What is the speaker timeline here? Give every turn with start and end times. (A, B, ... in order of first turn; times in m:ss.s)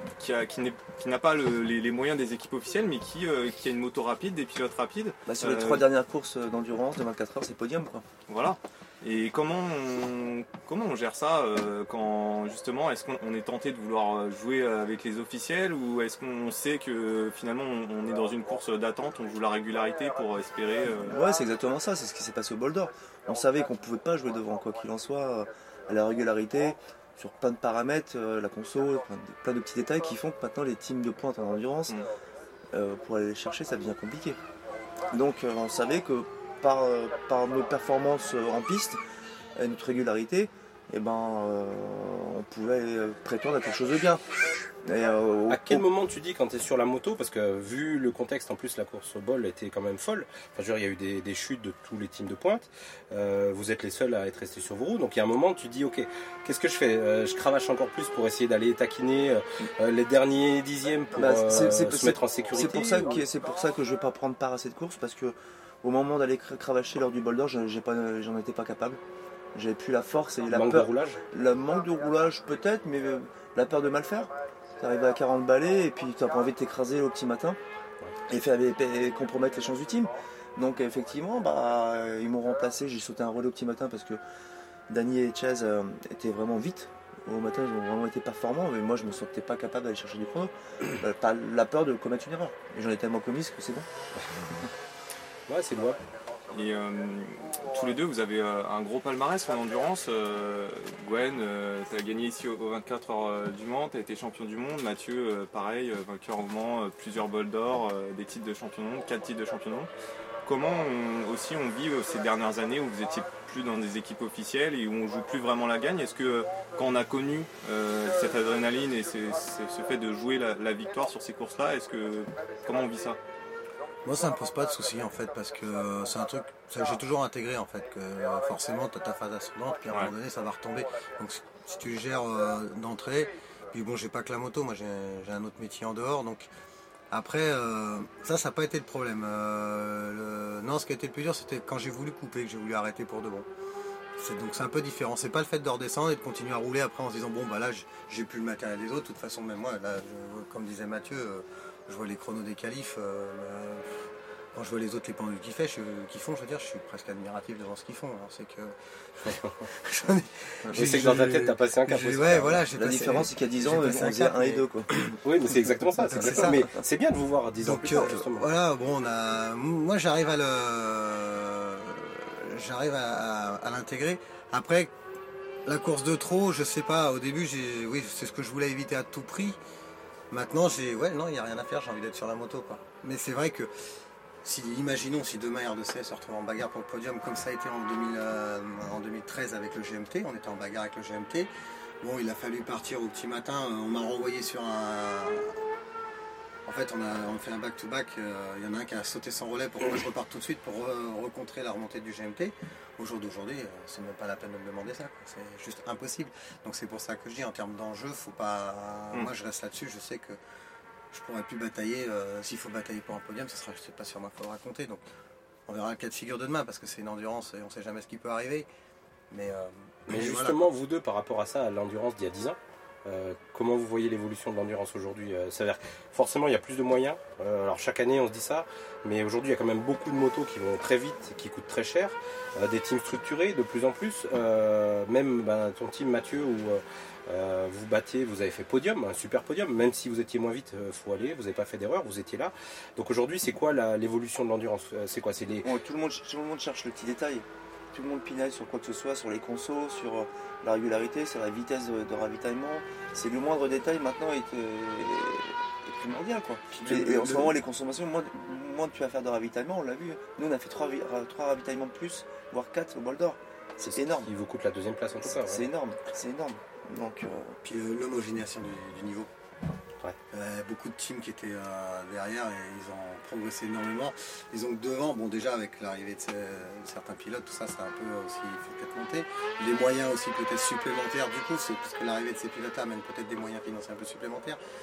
0:00.2-0:05.9 A
0:05.3-0:08.0 B
0:08.3-0:21.2 A
0:21.0-0:32.0 B
0:32.7-0:34.4 B
0:35.1-0:39.0 B
0:39.6-0:45.9 B
0:45.5-1:03.2 C
1:01.2-1:09.0 B
1:09.5-1:17.6 B
1:10.5-1:11.2 C
1:18.3-1:24.2 B
1:24.9-1:33.9 B
1:35.5-1:36.0 C
1:36.5-1:49.9 A
1:50.4-2:03.2 A
2:04.0-2:16.5 D
2:17.1-2:23.5 D
2:24.2-2:45.2 D
2:40.7-2:42.7 C
2:42.8-2:44.9 B
2:45.2-2:48.5 C
2:46.0-2:46.6 D
2:46.2-2:46.7 B
2:47.6-2:54.9 D
2:55.7-2:59.6 D
3:00.3-3:03.7 D
3:04.4-3:11.5 D
3:12.0-3:15.6 D
3:16.7-3:30.4 D
3:31.1-3:35.0 D
3:35.7-3:38.7 D
3:39.3-3:40.6 D
3:40.1-4:05.7 C
4:05.6-4:24.3 B
4:16.7-4:17.6 D
4:23.8-4:25.7 C
4:25.2-4:27.6 B
4:27.6-4:29.3 D
4:30.3-4:44.6 D